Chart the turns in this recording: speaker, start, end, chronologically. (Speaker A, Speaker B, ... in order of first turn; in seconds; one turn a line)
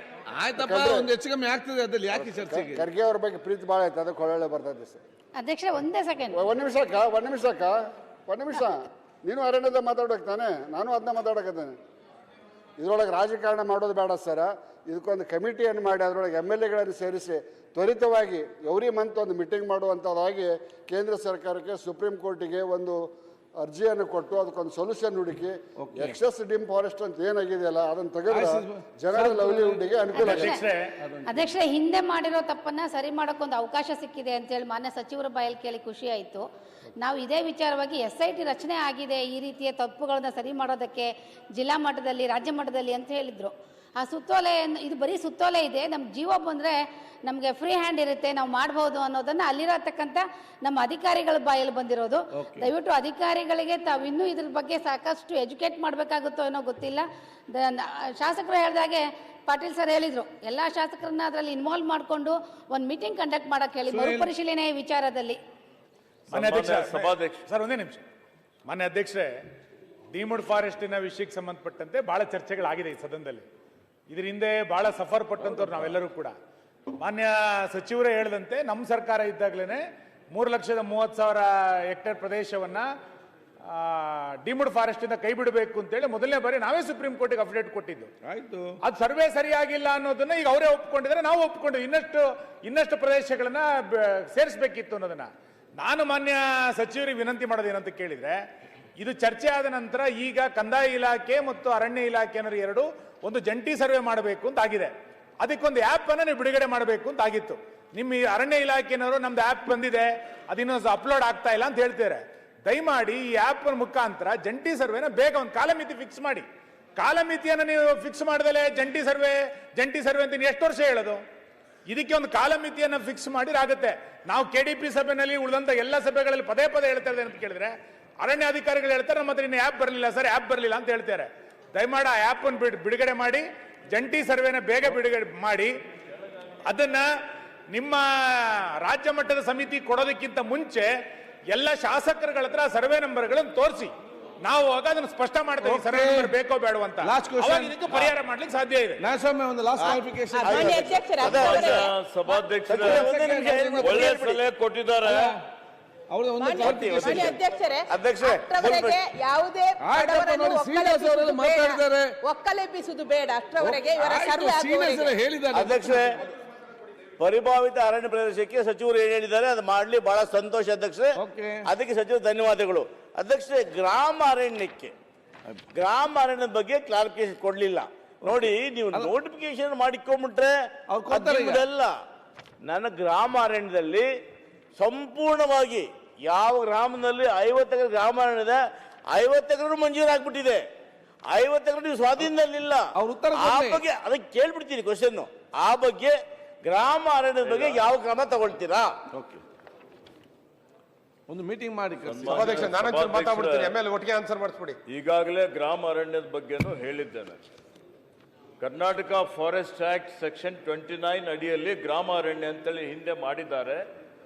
Speaker A: 0.3-2.8
Speaker B: 0.6-1.1
Speaker B: 2.1-5.0
Speaker C: 5.4-6.4
Speaker B: 6.3-7.7
Speaker B: 8.3-11.8
Speaker B: 12.8-23.0
Speaker B: 23.6-30.5
Speaker A: 25.8-26.2
Speaker A: 28.3-29.8
Speaker C: 30.1-30.6
Speaker D: 30.2-30.9
Speaker A: 31.0-31.4
Speaker C: 31.2-36.5
Speaker C: 37.0-65.4
Speaker A: 52.4-52.7
Speaker A: 63.9-64.3
Speaker E: 66.3-67.4
Speaker D: 66.3-68.0
Speaker D: 68.7-69.3
Speaker D: 70.1-73.5
Speaker D: 74.1-76.3
Speaker D: 77.0-82.9
Speaker D: 83.7-88.1
Speaker A: 88.2-88.7
Speaker D: 88.8-98.4
Speaker D: 99.0-116.5
Speaker D: 117.0-121.2
Speaker D: 121.9-135.7
Speaker D: 136.7-137.1
Speaker D: 137.7-140.9
Speaker D: 141.5-143.9
Speaker D: 144.4-149.0
Speaker A: 145.6-146.3
Speaker A: 147.0-148.1
Speaker A: 149.0-151.0
Speaker F: 149.8-151.8
Speaker G: 150.3-151.9
Speaker E: 151.2-153.1
Speaker F: 152.7-154.4
Speaker A: 152.8-154.1
Speaker E: 153.8-155.3
Speaker A: 155.0-155.4
Speaker A: 156.1-157.4
Speaker G: 156.4-165.2
Speaker F: 156.6-159.0
Speaker A: 159.8-162.1
Speaker A: 163.6-166.0
Speaker F: 165.5-166.2
Speaker F: 167.2-174.9
Speaker A: 171.2-171.6
Speaker F: 175.7-180.5
Speaker A: 178.2-179.1
Speaker A: 180.9-181.6
Speaker F: 181.1-181.9
Speaker F: 182.7-184.1
Speaker F: 184.8-188.6
Speaker F: 189.1-190.6
Speaker F: 191.3-198.9
Speaker A: 193.0-193.8
Speaker E: 197.4-197.8
Speaker A: 199.1-199.4
Speaker A: 201.3-202.7
Speaker E: 202.0-203.7
Speaker H: 202.3-204.8
Speaker E: 204.9-207.4
Speaker E: 208.6-213.8